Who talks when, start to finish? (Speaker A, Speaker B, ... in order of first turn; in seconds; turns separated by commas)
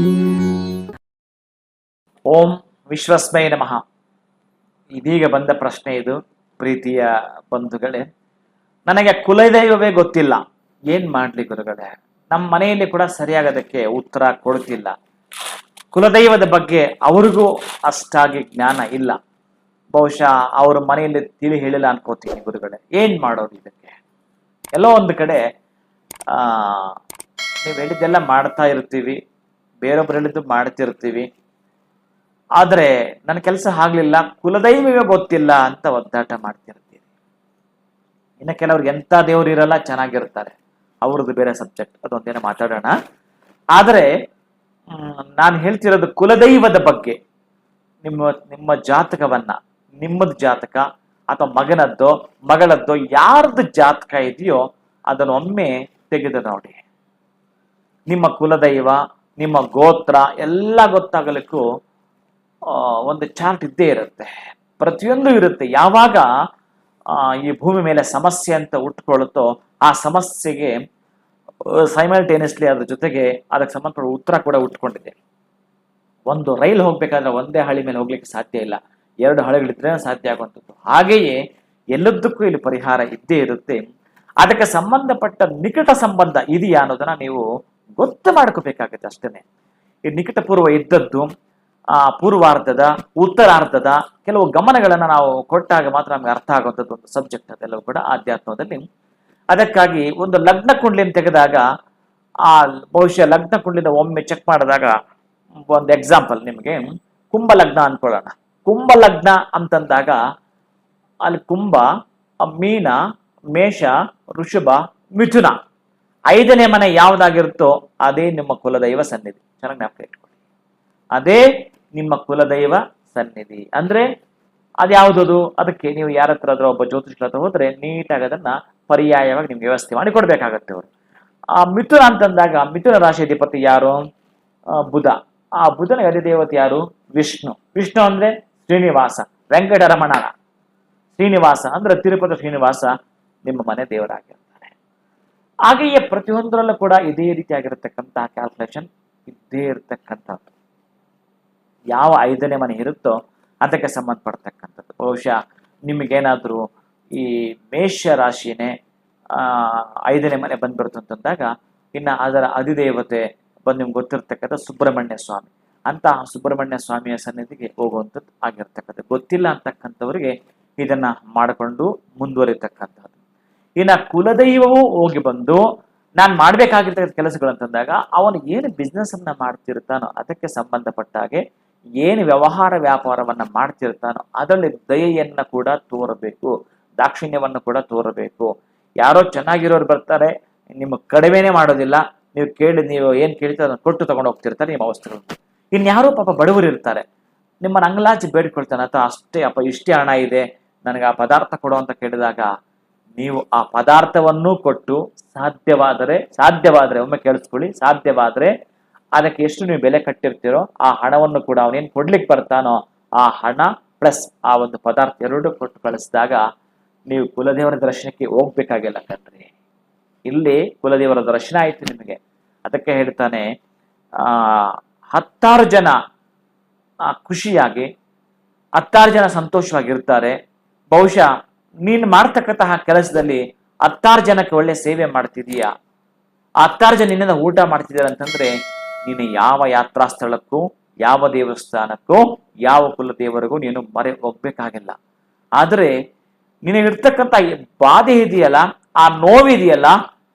Speaker A: 2.3-3.8, Speaker A: 4.9-8.1, Speaker A: 8.9-14.9, Speaker A: 15.9-19.2, Speaker A: 19.9-23.9, Speaker A: 24.8-25.4, Speaker A: 26.3-26.9, Speaker A: 27.6-29.2, Speaker A: 29.8-31.3, Speaker A: 32.6-37.0, Speaker A: 38.4-43.0, Speaker A: 43.7-44.1, Speaker A: 44.9-47.2, Speaker A: 48.0-56.8, Speaker A: 58.1-61.6, Speaker A: 62.7-66.3, Speaker A: 67.2-70.8, Speaker A: 71.7-75.2, Speaker A: 76.3-81.4, Speaker A: 81.9-83.8, Speaker A: 84.4-87.5, Speaker A: 88.0-89.4, Speaker A: 90.1-91.3, Speaker A: 92.1-98.8, Speaker A: 99.5-101.6, Speaker A: 102.5-104.9, Speaker A: 105.7-110.2, Speaker A: 111.2-111.9, Speaker A: 112.5-113.0, Speaker A: 113.5-115.5, Speaker A: 116.3-120.3, Speaker A: 121.2-124.1, Speaker A: 124.8-130.9, Speaker A: 131.6-134.0, Speaker A: 134.8-140.3, Speaker A: 141.2-142.9, Speaker A: 143.5-144.7, Speaker A: 145.7-150.5, Speaker A: 151.9-156.6, Speaker A: 157.1-158.7, Speaker A: 159.3-173.1, Speaker A: 173.8-175.6, Speaker A: 176.2-181.4, Speaker A: 182.0-197.0, Speaker A: 197.6-202.5, Speaker A: 203.2-208.5, Speaker A: 209.2-216.4, Speaker A: 217.1-219.5, Speaker A: 220.3-223.5, Speaker A: 224.2-226.0, Speaker A: 227.1-227.9, Speaker A: 228.8-230.3, Speaker A: 230.9-231.3, Speaker A: 231.8-235.7, Speaker A: 236.6-238.5, Speaker A: 239.1-245.0, Speaker A: 245.6-245.9, Speaker A: 246.7-250.0